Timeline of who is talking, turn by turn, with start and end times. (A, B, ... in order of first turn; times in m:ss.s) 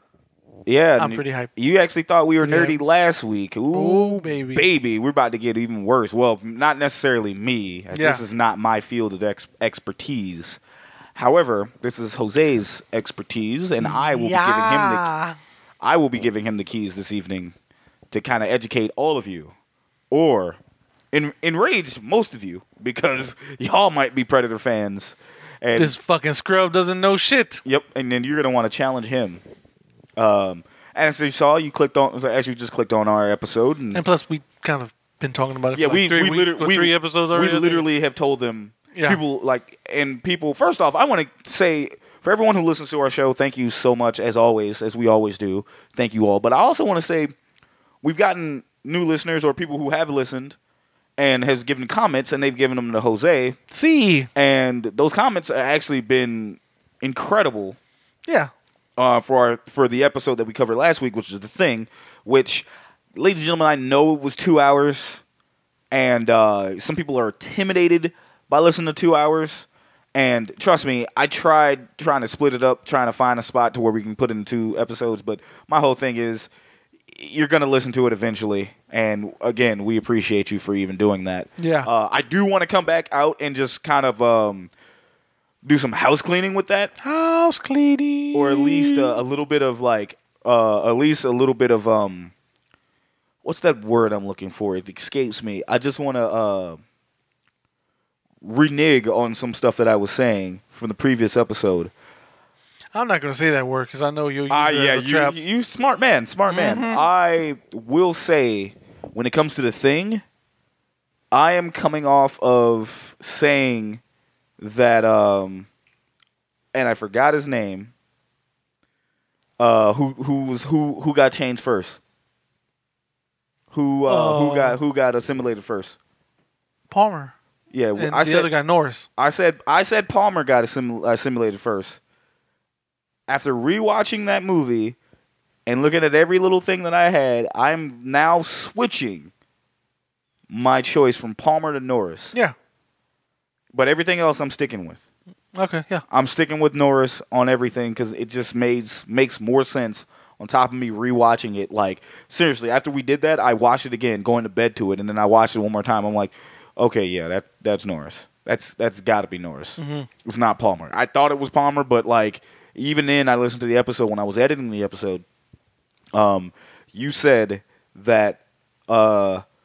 0:00.7-0:10.6 A
0:01.0-0:01.5 B
0:02.4-0:02.8 B
0:03.7-0:04.7 B
0:07.9-0:08.2 B
0:11.2-0:15.1 A
0:13.8-0:15.4 B
0:15.8-0:17.5 A
0:18.1-0:19.5 A
0:20.1-0:20.6 A
0:21.1-0:26.0 A
0:25.8-0:27.6 B
0:27.6-0:29.4 A
0:30.2-0:34.0 A
0:33.9-0:37.9 B
0:35.8-0:47.3 A
0:38.9-0:39.2 B
0:48.0-0:50.6 A
0:51.2-0:53.6 A
0:53.7-0:54.3 B
0:54.4-0:57.8 A
0:58.3-0:58.5 B
0:59.0-1:05.2 A
1:05.9-1:16.5 A
1:17.1-1:24.7 A
1:21.6-1:21.9 B
1:25.6-1:26.9 A
1:27.0-1:29.2 B
1:28.3-1:32.3 A
1:33.4-1:36.8 A
1:38.4-1:41.9 A
1:42.9-1:45.4 B
1:44.5-1:50.2 A
1:46.5-1:47.1 B
1:51.3-1:54.0 A
1:54.6-1:55.7 A
1:56.7-1:57.9 A
1:59.6-2:02.0 A
2:03.7-2:06.0 A
2:04.1-2:04.8 B
2:06.9-2:07.3 B
2:07.7-2:08.5 A
2:08.0-2:09.1 B
2:09.2-2:12.0 A
2:13.3-2:15.0 A
2:15.7-2:19.3 A
2:20.5-2:22.4 A
2:23.7-2:25.0 A
2:25.6-2:26.0 B
2:26.1-2:45.2 A
2:39.8-2:40.1 B
2:46.1-2:49.4 A